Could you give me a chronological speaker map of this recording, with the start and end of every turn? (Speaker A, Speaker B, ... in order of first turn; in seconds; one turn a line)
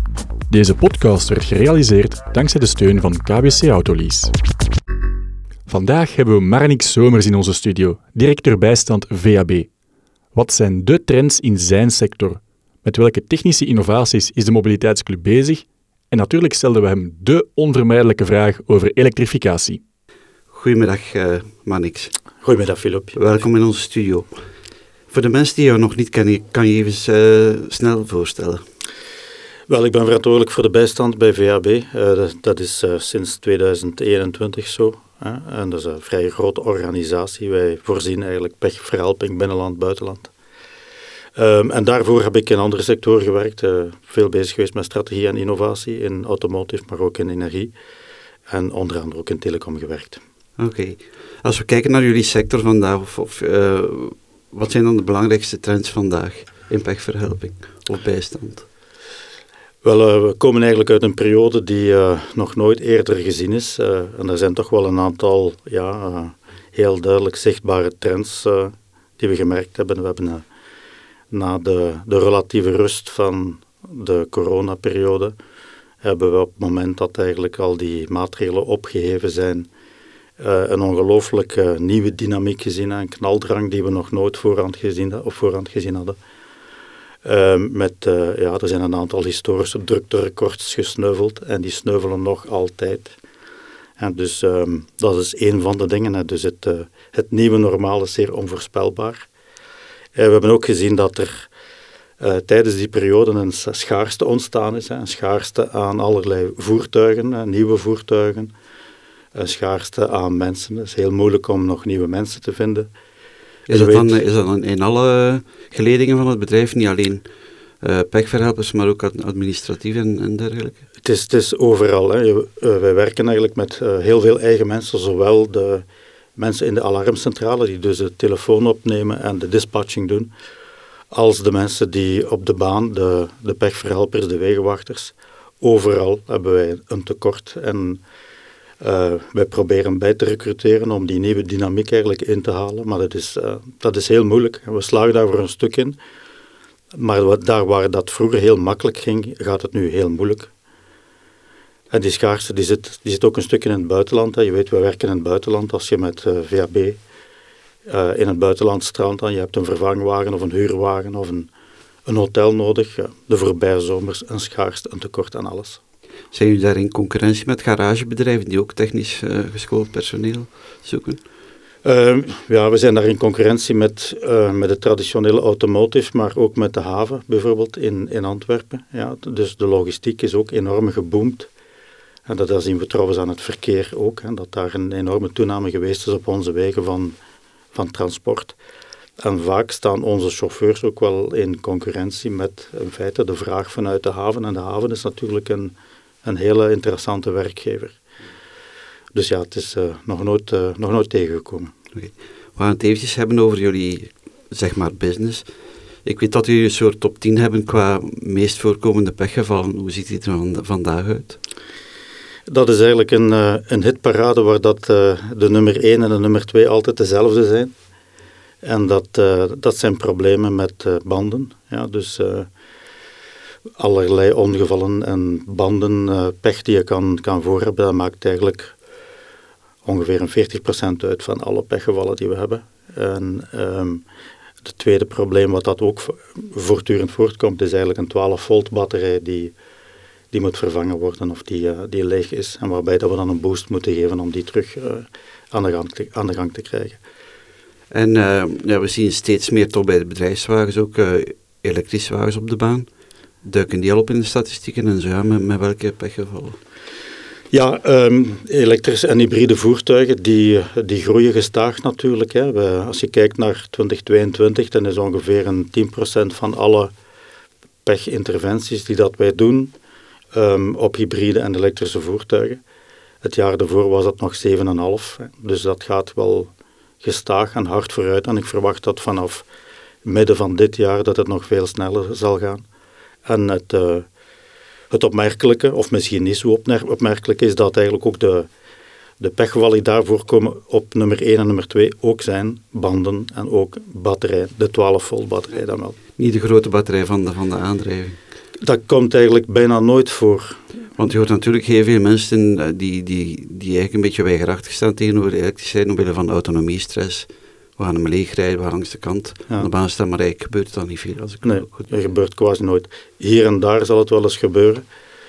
Speaker A: 0.5-4.3
Speaker A: 5.7-9.7
Speaker A: 10.3-19.8
Speaker B: 20.5-22.1
Speaker C: 22.4-23.2
Speaker B: 23.1-24.4
Speaker B: 25.1-28.6
Speaker C: 29.7-40.3
Speaker C: 41.4-47.7
Speaker C: 48.5-50.2
Speaker B: 50.6-58.6
Speaker C: 59.8-70.4
Speaker C: 71.3-75.3
Speaker C: 76.0-79.7
Speaker C: 80.4-86.2
Speaker C: 87.2-93.2
Speaker C: 94.0-99.3
Speaker C: 100.2-101.5
Speaker C: 102.2-108.5
Speaker C: 109.3-112.9
Speaker B: 113.7-117.2
Speaker C: 113.7-114.2
Speaker B: 117.8-120.8
Speaker C: 121.0-125.8
Speaker C: 126.4-130.3
Speaker C: 131.1-138.0
Speaker C: 138.8-146.0
Speaker C: 146.9-150.5
Speaker C: 151.9-157.0
Speaker C: 157.9-161.5
Speaker C: 162.1-165.8
Speaker B: 166.3-171.2
Speaker C: 171.8-181.5
Speaker C: 182.3-187.2
Speaker C: 187.7-188.6
Speaker C: 189.2-198.0
Speaker C: 199.1-201.7
Speaker B: 201.9-205.5
Speaker B: 206.0-211.4
Speaker C: 212.5-217.7
Speaker C: 218.6-222.5
Speaker C: 223.8-228.8
Speaker C: 229.8-234.0
Speaker C: 234.6-239.5
Speaker C: 240.3-247.0
Speaker B: 247.9-252.9
Speaker B: 253.4-256.6
Speaker C: 257.5-266.9
Speaker C: 267.9-269.7
Speaker C: 270.3-272.6
Speaker C: 273.2-276.5
Speaker C: 277.0-279.4
Speaker C: 280.0-282.6
Speaker C: 283.2-284.1
Speaker C: 284.9-288.5
Speaker C: 289.2-296.0
Speaker B: 296.2-298.2
Speaker C: 298.6-300.6
Speaker B: 301.0-311.9
Speaker C: 311.4-314.9